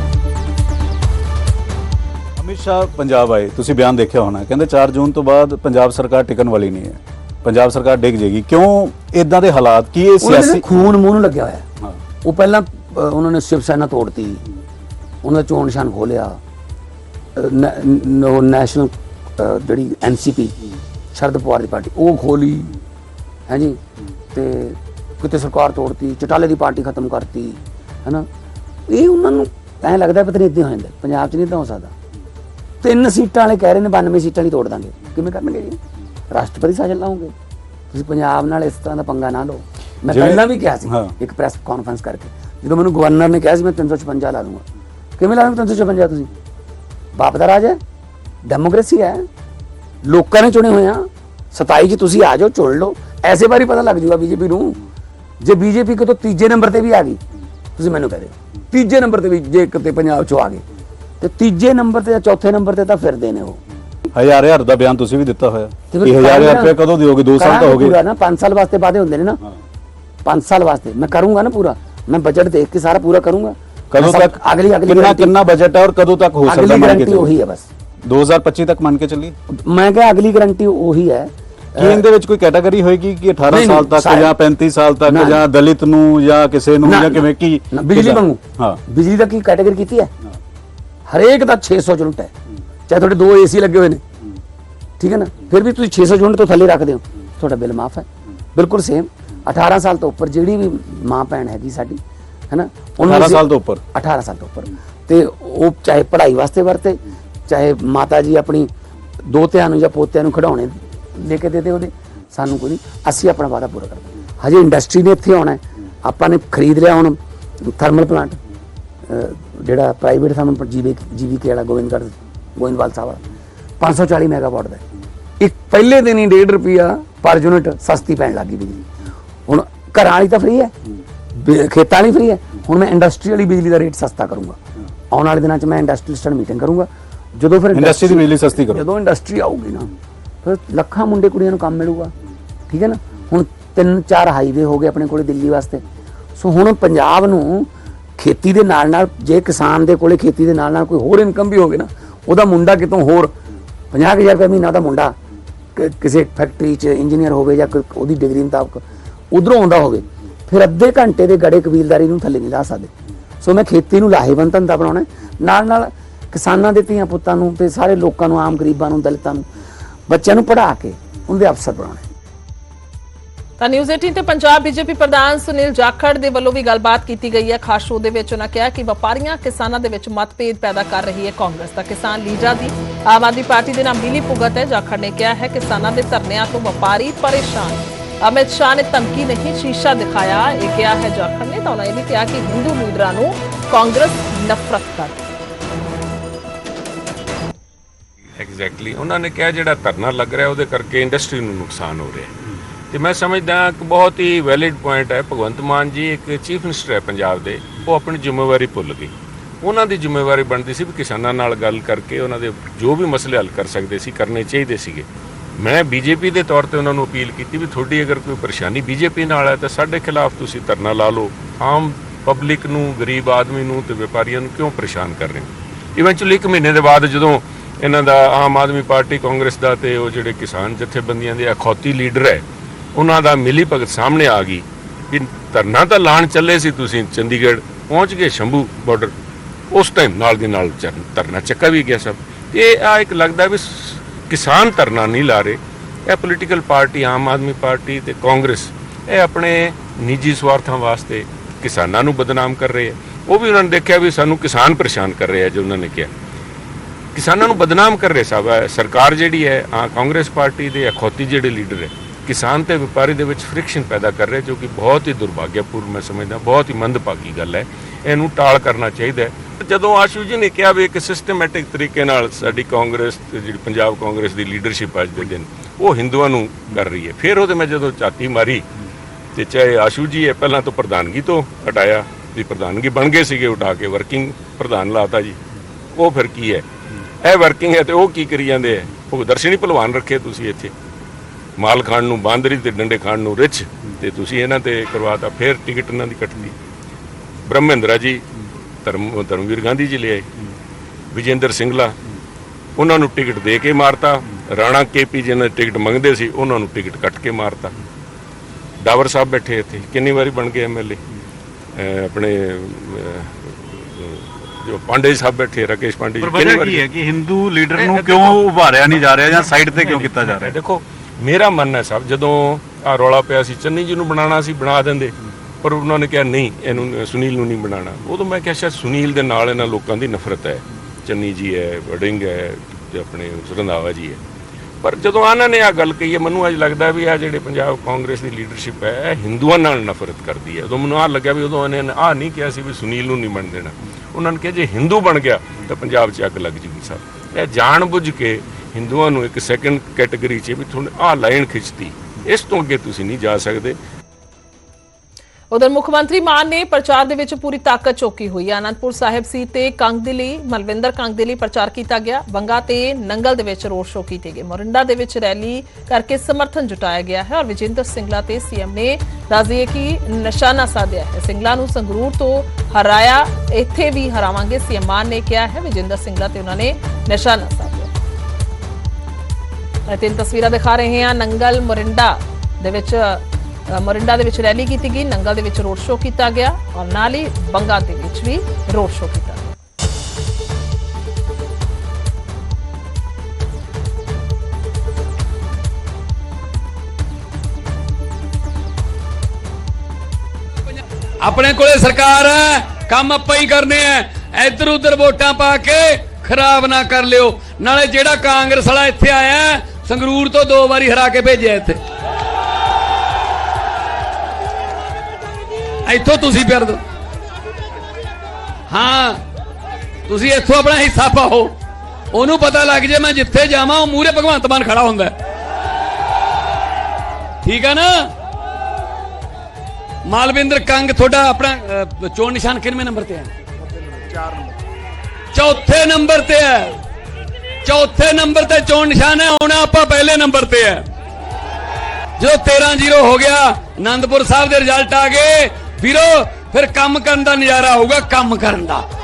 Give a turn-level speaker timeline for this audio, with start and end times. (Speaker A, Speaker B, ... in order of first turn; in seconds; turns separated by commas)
Speaker A: 2.4-10.6, Speaker B: 10.2-11.7, Speaker B: 12.2-14.4, Speaker B: 15.2-16.4, Speaker B: 17.4-20.6, Speaker B: 21.1-22.8, Speaker B: 23.5-23.8, Speaker B: 24.3-28.3, Speaker B: 28.9-31.9, Speaker B: 32.8-35.8, Speaker B: 36.3-37.3, Speaker B: 37.9-44.6, Speaker A: 40.1-41.1, Speaker B: 45.2-46.3, Speaker B: 47.2-47.8, Speaker B: 48.5-49.3, Speaker B: 50.0-54.8, Speaker B: 55.4-57.2, Speaker B: 57.8-60.6, Speaker B: 61.2-63.6, Speaker A: 64.2-68.0, Speaker B: 65.9-66.8, Speaker B: 67.4-69.4, Speaker B: 70.2-75.4, Speaker A: 73.9-74.3, Speaker A: 74.9-77.3, Speaker B: 76.5-77.7, Speaker A: 78.0-79.3, Speaker B: 79.5-82.0, Speaker A: 81.8-88.8, Speaker B: 83.5-84.3, Speaker B: 85.1-85.4, Speaker B: 86.8-90.1, Speaker B: 91.1-92.3, Speaker B: 92.9-94.0, Speaker B: 95.0-108.7, Speaker A: 103.0-103.8, Speaker B: 109.3-118.4, Speaker B: 119.1-123.2, Speaker B: 123.8-124.8, Speaker B: 125.4-128.8, Speaker B: 129.5-130.7, Speaker B: 131.3-134.6, Speaker B: 135.1-139.9, Speaker A: 137.8-138.8, Speaker B: 140.4-142.1, Speaker B: 142.7-145.8, Speaker B: 146.4-153.3, Speaker B: 153.9-155.1, Speaker B: 155.8-162.9, Speaker B: 163.4-169.5, Speaker B: 170.1-172.0, Speaker C: 173.6-195.3, Speaker D: 198.4-202.3, Speaker D: 202.9-215.1, Speaker D: 215.6-232.4, Speaker D: 233.0-239.1, Speaker D: 239.7-256.1, Speaker D: 257.1-278.6, Speaker D: 279.4-285.4, Speaker D: 286.0-286.6, Speaker D: 287.2-290.7, Speaker D: 291.6-296.6, Speaker D: 297.5-298.2, Speaker D: 298.9-300.3, Speaker D: 301.1-301.9, Speaker D: 302.8-307.8, Speaker D: 308.8-311.0, Speaker D: 311.8-316.8, Speaker A: 316.2-320.5, Speaker D: 317.8-318.4, Speaker D: 319.6-334.2, Speaker D: 334.8-353.8, Speaker C: 355.5-377.9, Speaker C: 379.9-389.6, Speaker E: 401.2-411.8, Speaker E: 415.9-416.8, Speaker E: 418.7-419.2, Speaker E: 420.1-421.6, Speaker E: 422.1-425.1, Speaker E: 427.4-428.1, Speaker E: 430.1-433.3, Speaker E: 435.3-436.8, Speaker E: 437.6-440.9, Speaker E: 442.2-448.9